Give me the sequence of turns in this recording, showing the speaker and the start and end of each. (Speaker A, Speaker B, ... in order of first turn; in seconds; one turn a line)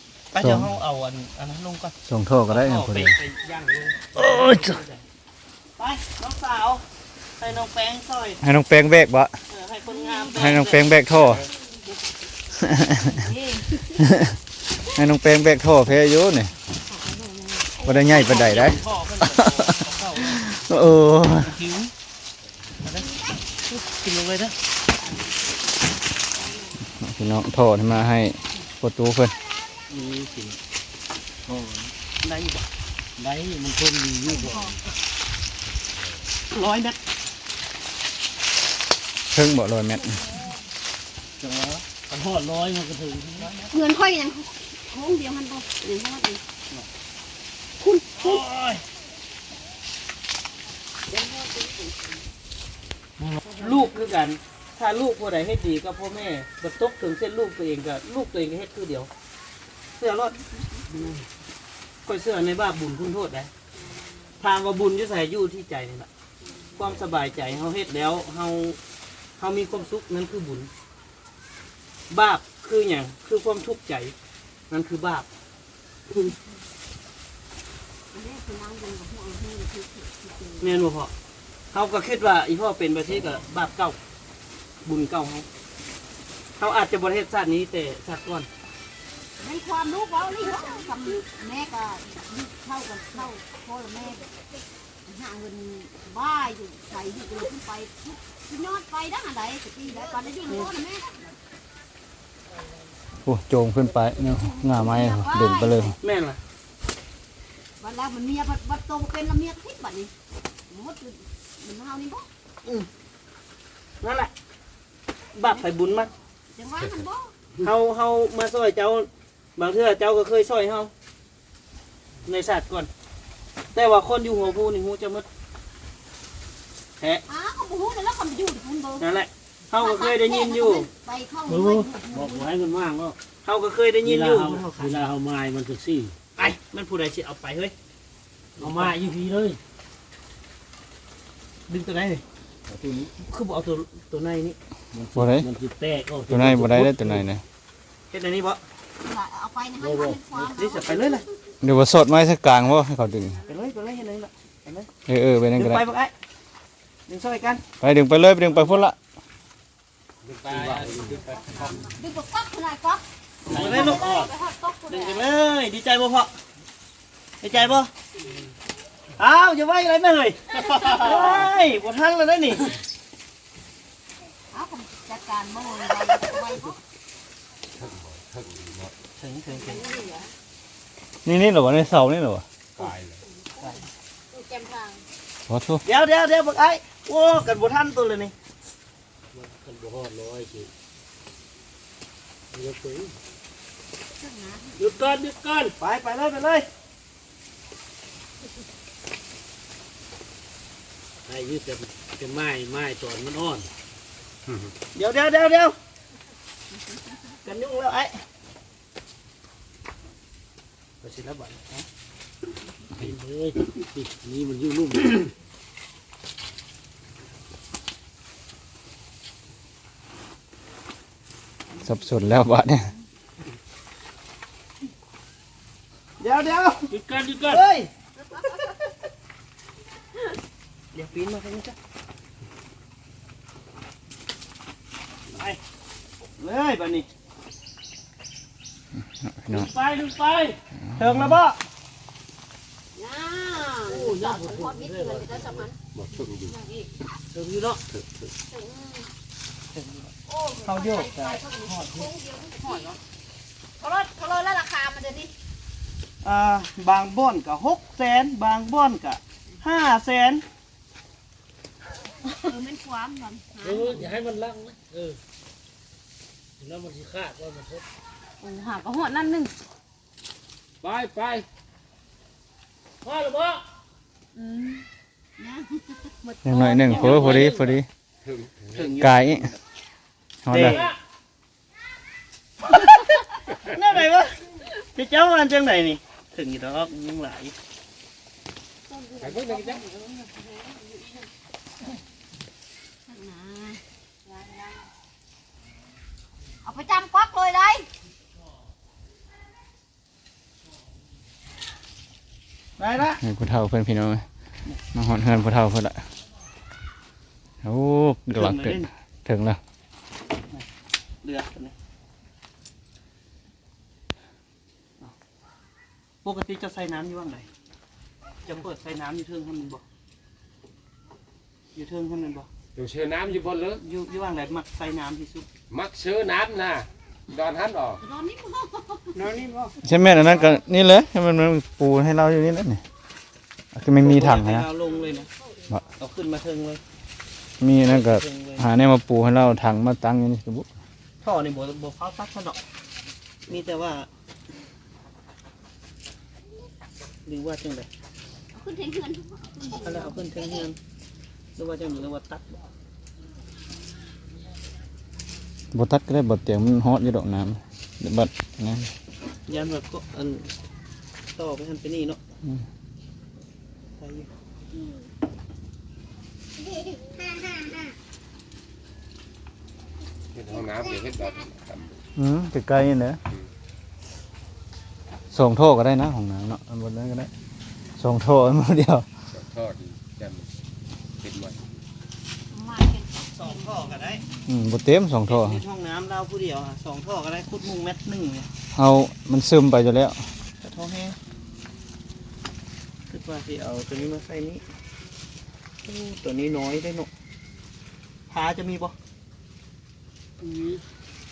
Speaker A: 0.3-1.9
Speaker B: 0.4-0.7
Speaker B: 2.0-3.2
Speaker A: 2.5-5.0
Speaker B: 4.2-4.8
Speaker A: 5.8-6.8
Speaker A: 7.4-8.4
Speaker B: 8.4-9.4
Speaker A: 9.5-10.9
Speaker B: 10.4-11.5
Speaker B: 12.6-13.3
Speaker C: 13.0-14.0
Speaker B: 14.0-16.5
Speaker C: 16.9-18.7
Speaker B: 17.8-21.5
Speaker A: 17.9-20.6
Speaker A: 21.4-21.9
Speaker A: 22.8-23.1
Speaker A: 23.7-24.6
Speaker B: 27.0-29.4
Speaker D: 29.9-30.6
Speaker D: 31.5-31.8
Speaker A: 31.6-32.7
Speaker D: 33.2-34.8
Speaker A: 36.5-37.0
Speaker B: 39.3-40.2
Speaker A: 41.4-41.8
Speaker D: 42.1-43.5
Speaker A: 43.4-43.8
Speaker C: 43.7-46.4
Speaker A: 47.8-48.8
Speaker C: 51.1-51.9
Speaker D: 53.2-53.5
Speaker A: 53.6-59.1
Speaker A: 60.0-60.4
Speaker A: 62.0-63.5
Speaker C: 63.8-64.3
Speaker A: 64.4-66.1
Speaker A: 66.8-68.8
Speaker A: 69.4-70.7
Speaker A: 72.1-74.2
Speaker A: 74.7-75.3
Speaker C: 78.1-80.7
Speaker A: 80.6-81.1
Speaker A: 81.7-84.0
Speaker A: 84.8-85.5
Speaker A: 86.6-88.5
Speaker C: 89.4-94.3
Speaker C: 95.1-101.3
Speaker A: 100.5-100.7
Speaker B: 103.2-106.0
Speaker D: 104.2-104.5
Speaker C: 104.2-106.0
Speaker A: 106.0-106.4
Speaker C: 107.8-110.1
Speaker C: 110.7-112.3
Speaker A: 114.0-114.3
Speaker A: 115.3-116.1
Speaker C: 116.5-117.3
Speaker A: 117.6-120.9
Speaker A: 122.3-122.9
Speaker A: 123.7-125.3
Speaker C: 127.3-129.2
Speaker A: 129.0-130.9
Speaker C: 129.7-132.5
Speaker D: 131.5-133.2
Speaker A: 133.4-135.0
Speaker D: 134.0-136.2
Speaker A: 136.4-137.7
Speaker A: 138.6-139.0
Speaker D: 138.6-139.6
Speaker A: 141.7-142.2
Speaker D: 142.7-143.1
Speaker A: 143.2-144.6
Speaker D: 144.9-147.3
Speaker B: 145.2-145.5
Speaker B: 146.3-147.4
Speaker A: 148.1-148.6
Speaker C: 149.0-151.2
Speaker D: 149.8-150.2
Speaker A: 150.4-151.2
Speaker B: 151.6-153.4
Speaker A: 153.5-154.9
Speaker B: 155.1-155.8
Speaker A: 155.6-156.1
Speaker A: 157.1-157.6
Speaker B: 157.8-159.0
Speaker E: 160.2-161.4
Speaker D: 160.5-161.4
Speaker C: 161.5-165.3
Speaker D: 163.5-164.3
Speaker A: 163.5-164.3
Speaker A: 164.9-166.3
Speaker A: 167.4-167.9
Speaker A: 169.2-172.7
Speaker C: 170.7-171.5
Speaker C: 174.5-176.8
Speaker E: 177.7-178.9
Speaker A: 179.2-180.0
Speaker C: 179.6-180.3
Speaker B: 181.2-182.4
Speaker E: 182.8-183.2
Speaker C: 183.4-183.8
Speaker A: 183.6-183.9
Speaker C: 184.3-185.0
Speaker B: 185.5-185.8
Speaker A: 185.8-188.3
Speaker D: 189.3-190.7
Speaker D: 192.5-193.1
Speaker C: 194.2-195.0
Speaker D: 194.8-195.8
Speaker A: 195.8-196.7
Speaker D: 201.3-203.7
Speaker E: 204.5-204.7
Speaker A: 204.9-205.8
Speaker A: 207.4-208.2
Speaker A: 211.0-211.9
Speaker D: 213.0-215.3
Speaker B: 221.8-222.9
Speaker A: 226.2-226.9
Speaker D: 226.9-227.6
Speaker A: 227.5-227.9
Speaker A: 230.9-231.8
Speaker D: 235.3-235.6
Speaker A: 236.4-237.1
Speaker B: 239.2-239.7
Speaker D: 239.5-240.6
Speaker A: 241.0-241.6
Speaker B: 241.0-241.4
Speaker C: 242.9-245.8
Speaker D: 243.8-245.7
Speaker E: 245.9-246.6
Speaker C: 246.5-246.9
Speaker D: 247.3-247.8
Speaker E: 247.9-248.3
Speaker C: 248.5-249.1
Speaker A: 249.7-252.1
Speaker C: 250.3-253.0
Speaker C: 253.8-255.3
Speaker A: 256.2-260.4
Speaker C: 262.2-264.1
Speaker D: 263.6-265.2
Speaker D: 266.6-267.9
Speaker C: 268.4-269.5
Speaker E: 270.8-271.4
Speaker D: 273.0-273.6
Speaker C: 275.4-277.6
Speaker B: 276.4-277.9
Speaker A: 276.9-277.7
Speaker E: 278.2-279.0
Speaker A: 278.7-279.6
Speaker B: 279.0-279.5
Speaker B: 280.4-280.8
Speaker A: 280.5-280.9
Speaker D: 280.6-281.0
Speaker A: 282.7-287.5
Speaker C: 288.9-291.2
Speaker E: 289.2-289.9
Speaker C: 293.1-294.8
Speaker C: 296.6-297.9
Speaker A: 302.8-303.2
Speaker B: 303.2-304.2
Speaker B: 304.9-306.0
Speaker B: 307.6-309.6
Speaker A: 308.3-308.9
Speaker A: 311.2-311.7
Speaker A: 316.2-317.5
Speaker A: 318.4-319.8
Speaker A: 321.8-322.5
Speaker E: 322.8-323.8
Speaker A: 323.8-325.5
Speaker E: 325.7-328.0
Speaker C: 328.0-329.2
Speaker A: 329.1-330.5
Speaker B: 329.8-332.8
Speaker B: 333.7-334.7
Speaker A: 334.0-335.3
Speaker A: 336.0-336.8
Speaker B: 337.6-340.7
Speaker A: 337.8-338.7
Speaker A: 341.2-342.6
Speaker A: 343.5-344.1
Speaker A: 347.3-347.9
Speaker C: 348.5-350.6
Speaker A: 349.8-350.8
Speaker A: 351.6-352.6
Speaker B: 355.7-358.9
Speaker A: 359.5-360.5
Speaker A: 361.4-362.2
Speaker A: 364.0-364.3
Speaker E: 370.3-372.0
Speaker B: 372.2-373.2
Speaker B: 375.3-377.3
Speaker B: 378.0-379.1
Speaker E: 379.3-381.7
Speaker C: 382.5-384.0
Speaker A: 383.3-384.2
Speaker B: 384.5-385.6
Speaker A: 385.3-388.5
Speaker B: 388.7-390.2
Speaker A: 390.6-391.2
Speaker A: 393.1-394.6
Speaker A: 395.9-397.1
Speaker A: 398.3-398.9
Speaker D: 400.4-400.8